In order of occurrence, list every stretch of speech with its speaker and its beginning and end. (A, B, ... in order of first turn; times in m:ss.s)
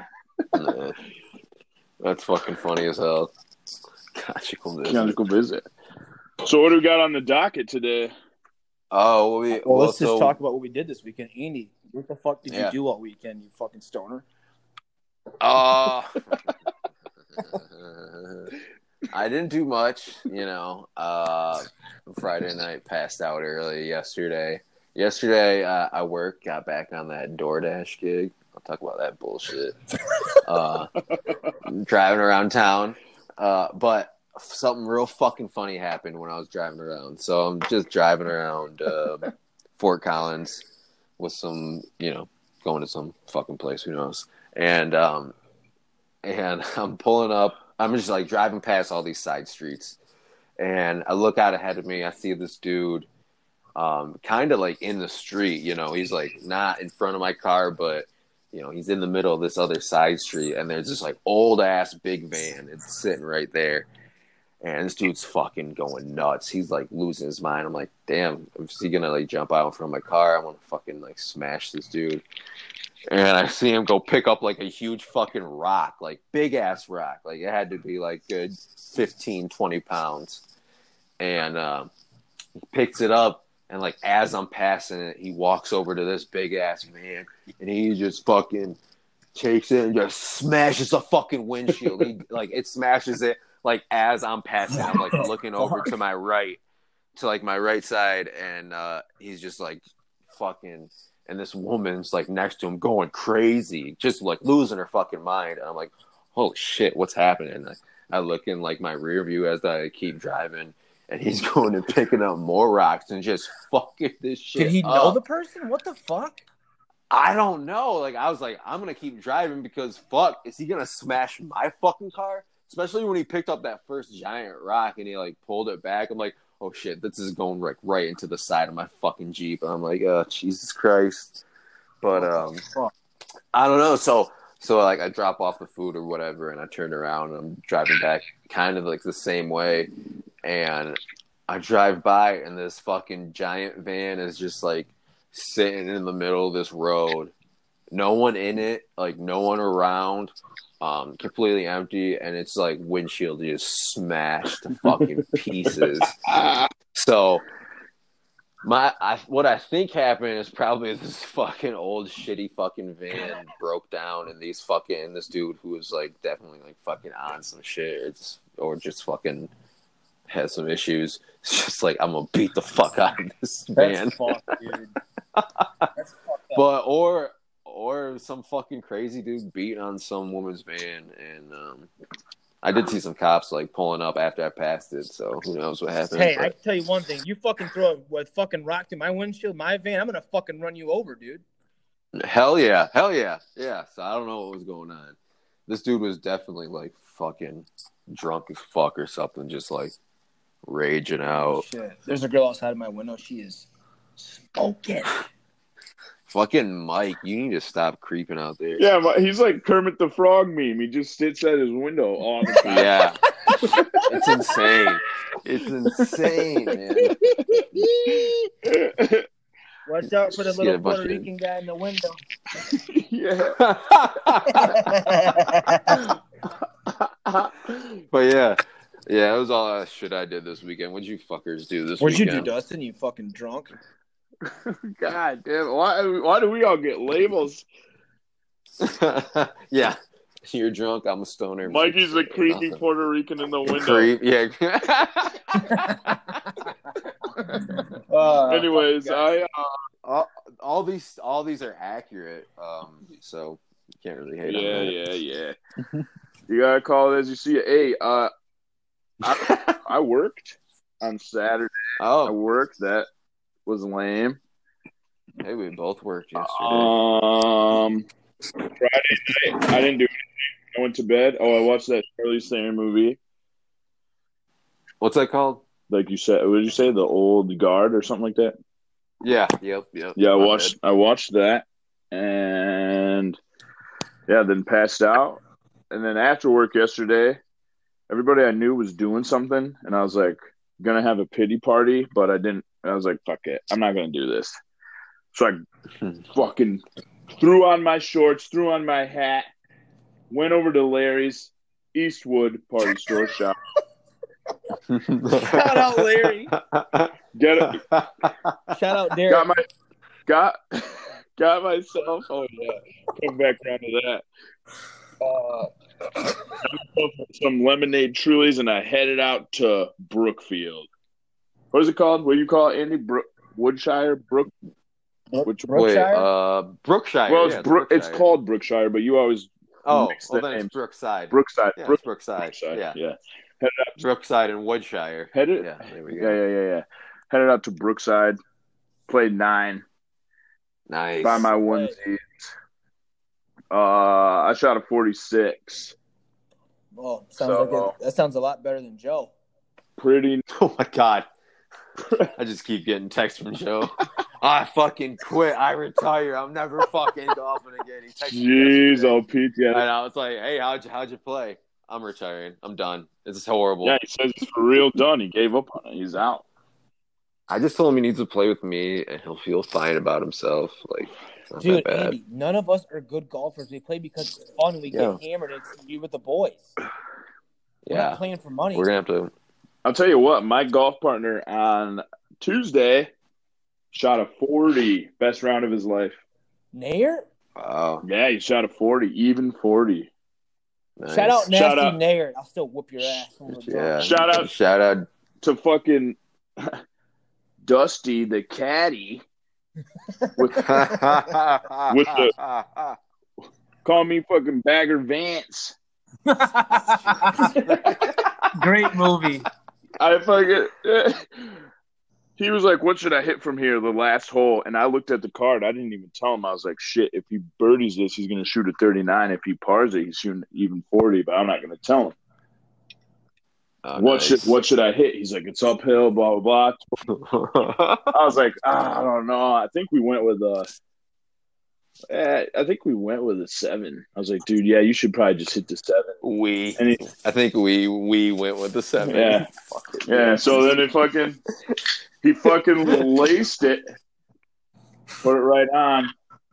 0:00.5-0:01.0 A
0:02.0-0:03.3 A
0:04.1-0:05.2 A
0:04.8-0:05.6 B
0:06.4-0:08.1 B
0:08.9-0:10.4 A
0:09.5-0:14.2 C
0:12.5-0:12.8 A
0:15.4-0:16.5 A
0:17.4-0:18.5 A
0:19.1-0:29.8 A
0:30.4-0:30.9 A
0:31.6-0:40.6 A
0:41.2-0:45.3 A
0:46.2-0:50.0 A
0:50.6-0:53.1 A
0:53.8-1:03.9 A
1:04.6-1:12.2 A
1:13.1-1:20.4 A
1:21.2-1:21.9 A
1:22.6-1:28.8 A
1:29.3-1:36.6 A
1:34.8-1:35.8 C
1:37.1-1:55.2 A
1:54.6-1:56.4 C
1:57.1-2:11.4 A
2:12.0-2:12.6 A
2:12.1-2:12.9 C
2:13.5-2:19.9 A
2:20.4-2:27.3 A
2:27.9-2:36.2 A
2:35.7-2:36.7 B
2:36.9-2:37.4 A
2:38.6-2:49.5 A
2:50.3-2:54.4 A
2:53.8-2:55.0 C
2:55.3-2:55.9 A
2:56.0-2:56.6 C
2:56.5-3:01.9 A
3:02.6-3:06.5 A
3:06.1-3:11.4 C
3:12.1-3:19.9 A
3:20.6-3:21.6 A
3:21.5-3:25.2 C
3:26.3-3:28.9 A
3:28.8-3:32.9 B
3:32.6-3:33.2 A
3:33.4-3:34.3 C
3:33.6-3:34.2 B
3:34.0-3:37.2 A
3:37.0-3:38.3 C
3:38.1-3:39.2 B
3:39.8-3:42.2 C
3:40.1-3:41.3 A
3:42.7-3:43.6 B
3:43.6-3:45.1 A
3:44.5-3:46.0 C
3:48.1-3:52.5 A
3:52.0-3:53.7 C
3:54.4-3:57.6 B
3:58.8-4:02.8 A
4:01.6-4:04.1 B
4:03.6-4:06.5 A
4:05.6-4:06.0 C
4:08.1-4:09.3 C
4:08.5-4:09.7 B
4:10.0-4:15.0 A
4:14.4-4:15.5 B
4:16.5-4:18.3 B
4:19.2-4:21.7 B
4:19.2-4:19.8 A
4:22.0-4:22.3 A
4:22.2-4:23.1 B
4:23.6-4:24.4 B
4:25.4-4:26.9 A
4:26.4-4:28.0 B
4:28.8-4:30.1 B
4:30.7-4:33.2 B
4:35.0-4:35.6 A
4:35.9-4:38.5 B
4:39.2-4:40.7 A
4:40.2-4:43.4 B
4:44.3-4:45.4 B
4:45.9-4:47.4 B
4:48.1-4:54.6 B
4:55.3-4:55.6 B
4:56.3-4:56.8 B
4:57.4-4:59.4 B
5:00.3-5:03.6 B
5:04.9-5:08.7 A
5:05.3-5:06.5 C
5:07.3-5:07.8 B
5:08.7-5:09.5 C
5:09.3-5:09.6 B
5:10.3-5:14.2 B
5:15.2-5:15.7 B
5:16.5-5:20.9 B
5:21.7-5:24.5 B
5:25.3-5:26.3 C
5:25.4-5:25.8 B
5:25.7-5:28.2 A
5:27.3-5:30.7 B
5:29.8-5:33.0 A
5:31.3-5:34.0 B
5:34.0-5:36.4 A
5:35.3-5:38.4 B
5:39.1-5:39.8 B
5:40.9-5:41.5 A
5:41.2-5:42.5 B
5:41.4-5:42.0 C
5:43.7-5:45.9 B
5:46.9-5:49.3 C
5:47.4-5:47.9 B
5:50.0-5:50.4 B
5:50.5-5:51.3 A
5:52.0-5:52.3 B
5:52.3-5:59.2 A
5:58.3-5:59.8 B
5:59.7-6:04.0 A
6:03.8-6:06.4 B
6:07.5-6:12.2 A
6:11.6-6:16.7 C
6:14.9-6:15.2 A
6:17.8-6:18.2 A
6:17.9-6:18.8 C
6:18.7-6:19.3 A
6:19.8-6:23.1 B
6:23.9-6:26.2 B
6:26.7-6:27.2 C
6:27.6-6:28.0 A
6:28.0-6:30.1 B
6:31.0-6:31.5 A
6:31.1-6:34.1 C
6:31.5-6:32.0 B
6:33.5-6:35.1 A
6:34.0-6:34.5 B
6:35.4-6:36.8 B
6:37.6-6:39.2 B
6:40.2-6:41.0 C
6:40.4-6:41.0 B
6:40.6-6:43.0 A
6:41.9-6:42.3 B
6:43.8-6:45.8 B
6:46.3-6:49.5 C
6:47.7-6:48.5 A
6:50.0-6:51.6 B
6:52.4-7:02.1 B
7:03.8-7:04.5 A
7:04.0-7:06.8 B
7:07.1-7:08.3 A
7:08.1-7:10.7 B
7:12.1-7:16.1 B
7:16.2-7:20.8 A
7:16.8-7:17.0 B
7:19.0-7:19.5 B
7:20.0-7:21.4 B
7:22.2-7:23.8 B
7:25.2-7:26.1 B